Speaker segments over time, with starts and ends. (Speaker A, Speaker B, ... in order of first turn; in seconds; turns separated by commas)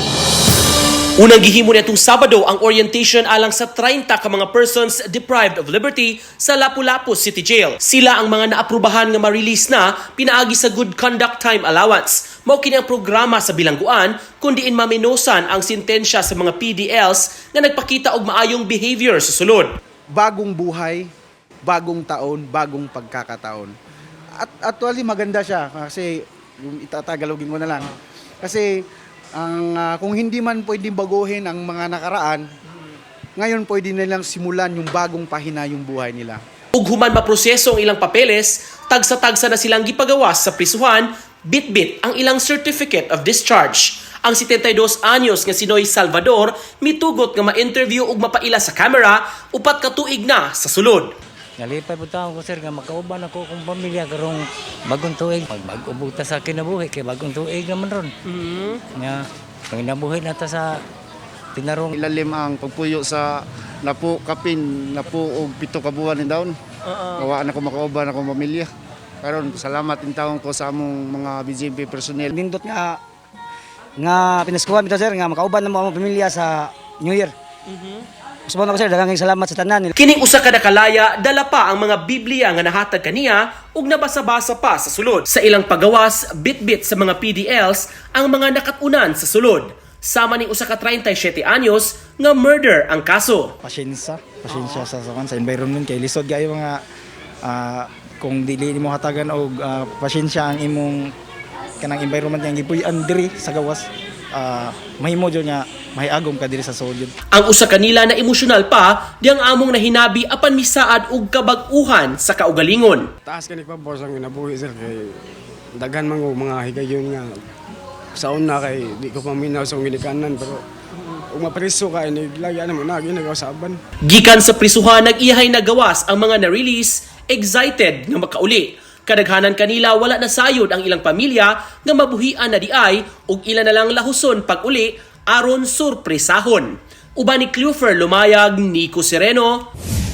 Speaker A: 1.2-19.8, Speaker B: 20.1-21.1, Speaker B: 21.6-23.7, Speaker B: 24.4-27.9, Speaker B: 28.4-28.8, Speaker B: 29.4-32.5, Speaker B: 33.4-36.4, Speaker A: 36.8-51.1, Speaker C: 51.6-58.1, Speaker A: 58.2-58.8, Speaker C: 59.0-60.8, Speaker C: 61.6-62.0, Speaker D: 61.9-63.3, Speaker D: 63.8-66.5, Speaker A: 66.8-67.3, Speaker D: 67.2-68.7, Speaker D: 69.2-72.3, Speaker E: 72.3-73.0, Speaker E: 74.0-77.3, Speaker E: 78.5-79.9, Speaker A: 80.0-93.5, Speaker F: 93.6-96.8, Speaker F: 97.5-101.1, Speaker F: 101.8-107.1, Speaker A: 107.3-113.1, Speaker G: 113.3-115.1, Speaker G: 115.8-117.4, Speaker G: 118.2-120.6, Speaker G: 121.3-123.8, Speaker A: 124.0-139.7